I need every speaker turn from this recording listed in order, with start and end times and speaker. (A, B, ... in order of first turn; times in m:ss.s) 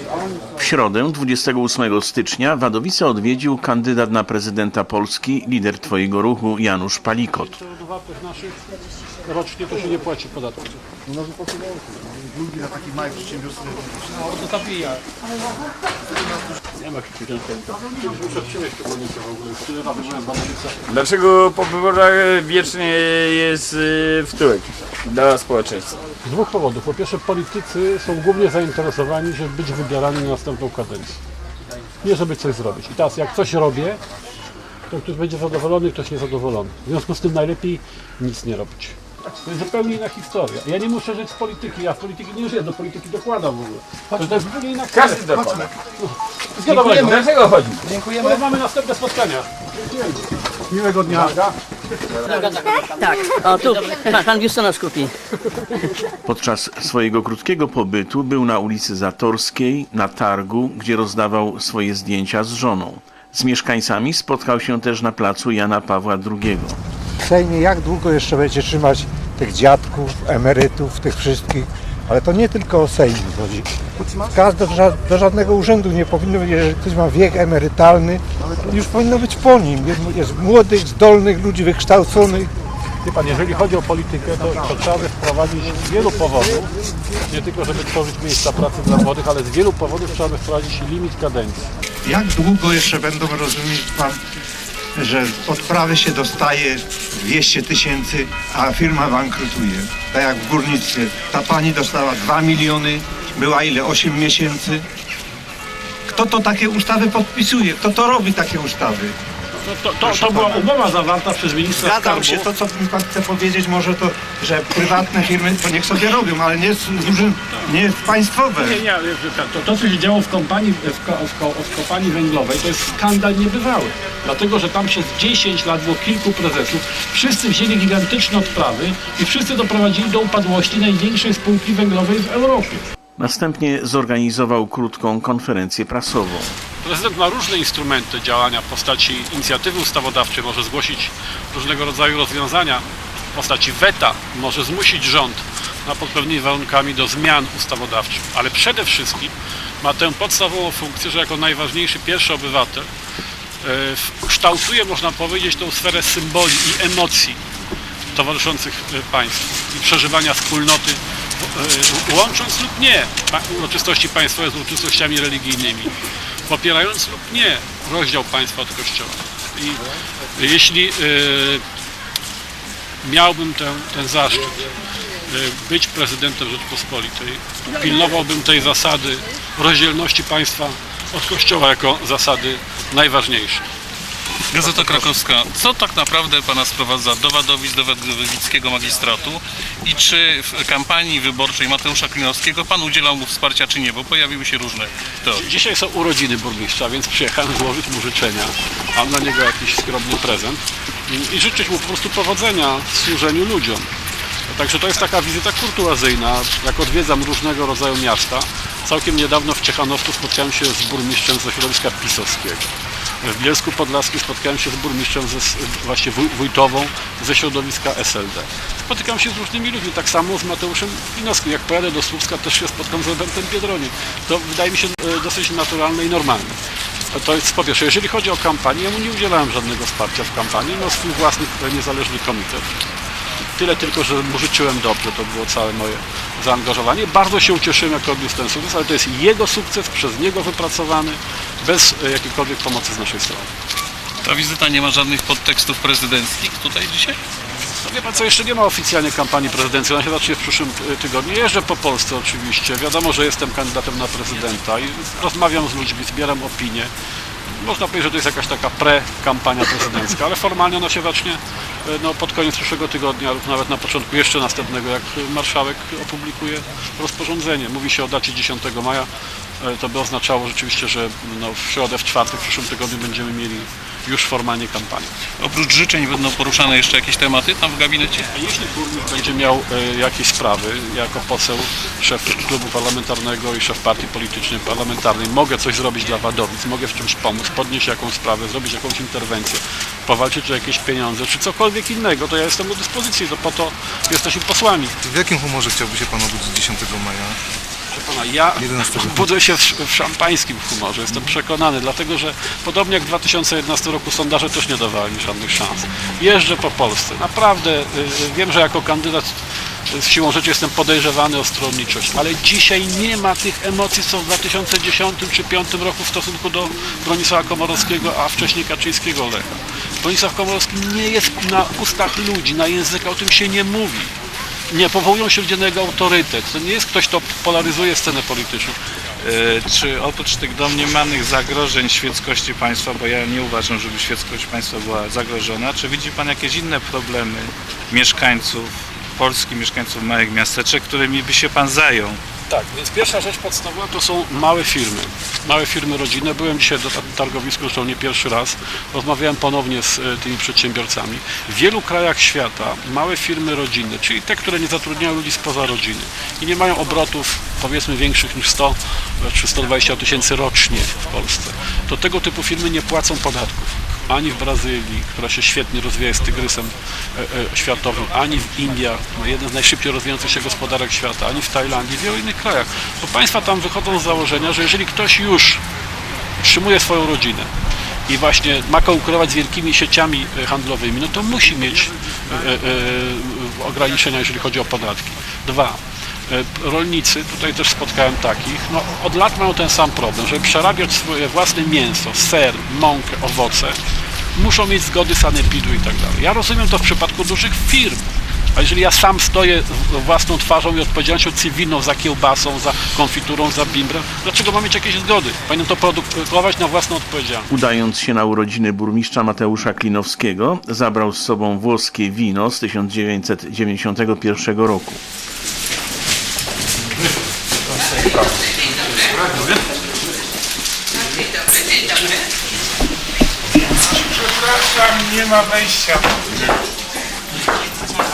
0:00.6-0:07.6 A
0:07.5-0:08.6 B
0:09.2-0:10.7 B
0:14.1-0:15.0 B
0:16.8-0:20.8 B
0:20.9-0:26.0 C
0:26.2-0:31.2 B
0:32.0-0:34.0 B
0:34.9-0:45.4 B
0:46.0-0:47.3 B
0:48.2-0:51.5 B
0:52.3-0:55.1 D
0:56.2-1:06.8 A
1:07.2-1:13.7 E
1:14.3-1:22.5 E
1:23.0-1:26.7 B
1:27.3-1:31.7 B
1:32.0-1:34.2 E
1:35.0-1:44.8 E
1:46.1-1:49.2 E
1:49.6-1:52.5 B
1:50.0-1:50.7 E
1:51.8-1:58.8 E
1:58.6-2:12.9 B
2:13.2-2:16.6 A
2:16.8-2:32.9 B
2:33.6-2:37.4 B
2:38.1-2:45.9 B
2:46.5-2:49.8 B
2:50.3-2:51.6 B
2:53.0-2:54.7 B
2:55.3-3:03.6 B
3:04.5-3:15.4 F
3:15.4-3:23.9 B
3:24.5-3:32.7 B
3:33.2-3:46.6 B
3:47.1-3:52.7 B
3:53.6-4:03.5 B
4:04.2-4:07.2 F
4:07.8-4:16.9 B
4:17.5-4:29.1 B
4:29.6-4:35.1 B
4:35.4-4:38.3 F
4:38.3-4:54.9 B
4:55.0-4:57.4 G
4:57.9-5:09.4 B
4:58.6-4:59.3 G
5:09.9-5:19.5 B
5:20.0-5:24.1 B
5:24.7-5:28.8 B
5:29.2-5:42.2 H
5:42.5-6:15.6 B
6:16.4-6:17.5 B
6:18.1-6:33.8 B
6:34.4-6:47.5 B
6:47.5-6:55.0 A
7:04.6-7:05.9 E